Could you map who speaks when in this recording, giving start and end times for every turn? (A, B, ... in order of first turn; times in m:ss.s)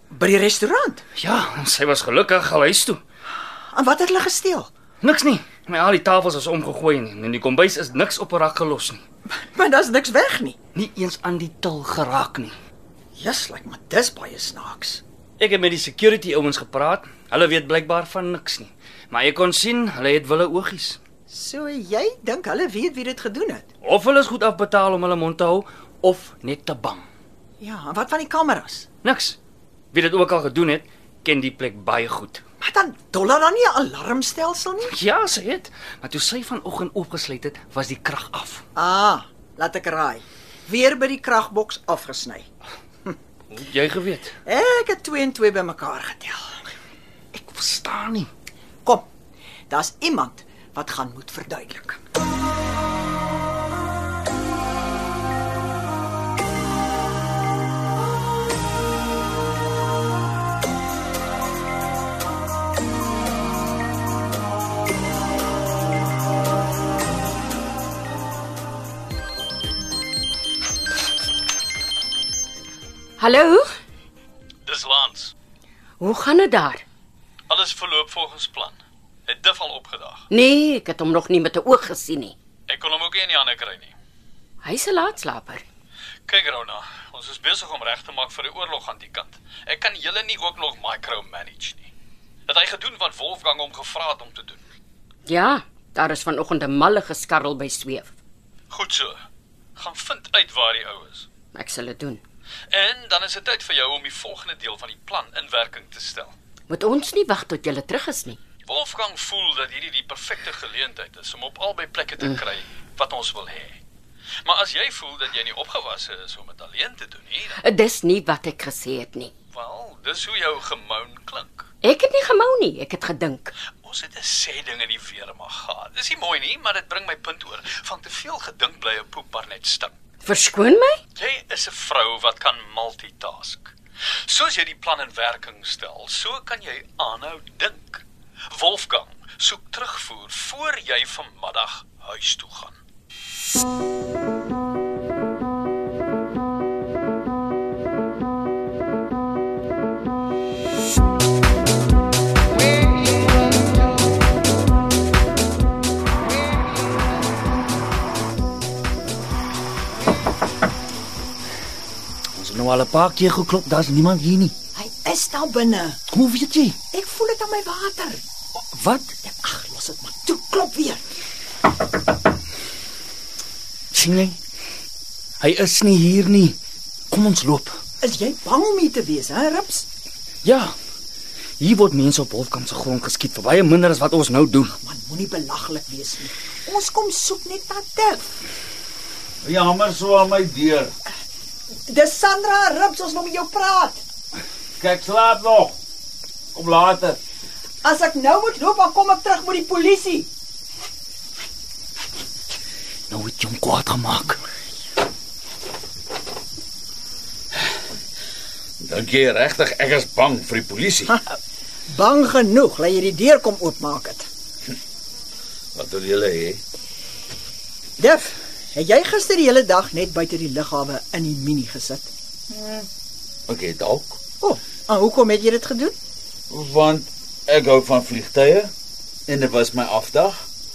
0:00.1-0:01.0 A
0:01.2-0:03.0 B
0:03.7-0:04.7 A
0:05.0-0:09.0 B
0:09.4-0:10.6 A
0:10.8-0:12.5 B
0:13.2-0:15.0 A
0:15.4-0:21.0 B
0:21.3-0:23.7 A
0:23.8-0:27.1 B
0:27.6-0:28.9 A
0:29.0-0:29.4 B
0:29.9-0:32.4 B
0:32.6-0:34.9 A
0:34.9-0:38.6 B
0:38.8-0:42.5 A
0:43.5-0:44.3 B
0:44.4-0:46.7 A
0:47.3-0:48.3 B
0:49.7-0:52.0 A
1:13.2-1:13.7 C
1:14.7-1:15.3 D
1:16.0-1:16.8 C
1:17.5-1:20.2 D
1:20.3-1:22.4 C
1:22.7-1:24.0 D
1:24.6-1:25.6 C
1:26.3-1:31.9 D
1:32.5-1:34.6 D
1:35.3-1:38.1 C
1:38.7-1:39.2 D
1:39.8-1:41.3 D
1:41.5-1:42.2 C
1:42.7-1:46.4 D
1:46.7-1:48.4 C
1:48.7-1:53.8 D
1:54.4-1:57.6 D
1:57.6-1:59.3 C
1:59.5-2:01.7 D
2:01.8-2:03.5 C
2:03.7-2:09.9 D
2:10.2-2:11.0 C
2:11.2-2:13.7 D
2:14.2-2:22.8 D
2:42.4-2:44.5 B
2:44.8-2:46.0 A
2:46.1-2:46.8 B
2:46.9-2:48.2 A
2:48.7-2:49.1 B
2:49.2-2:51.0 A
2:53.9-2:54.4 B
2:55.4-2:56.6 B
2:57.1-2:57.8 B
2:58.0-2:59.9 A
3:00.4-3:00.8 B
3:01.6-3:04.7 B
3:04.7-3:08.3 A
3:09.4-3:10.9 E
3:11.9-3:14.0 A
3:14.8-3:15.8 E
3:16.5-3:17.2 E
3:17.8-3:20.3 A
3:23.1-3:24.4 B
3:28.8-3:31.2 E
3:31.1-3:31.4 A
3:31.9-3:34.3 A
3:35.8-3:36.6 E
3:38.0-3:42.1 A
3:43.5-3:44.2 E
3:44.4-3:46.0 A
3:46.5-3:48.7 E
3:49.3-3:50.4 E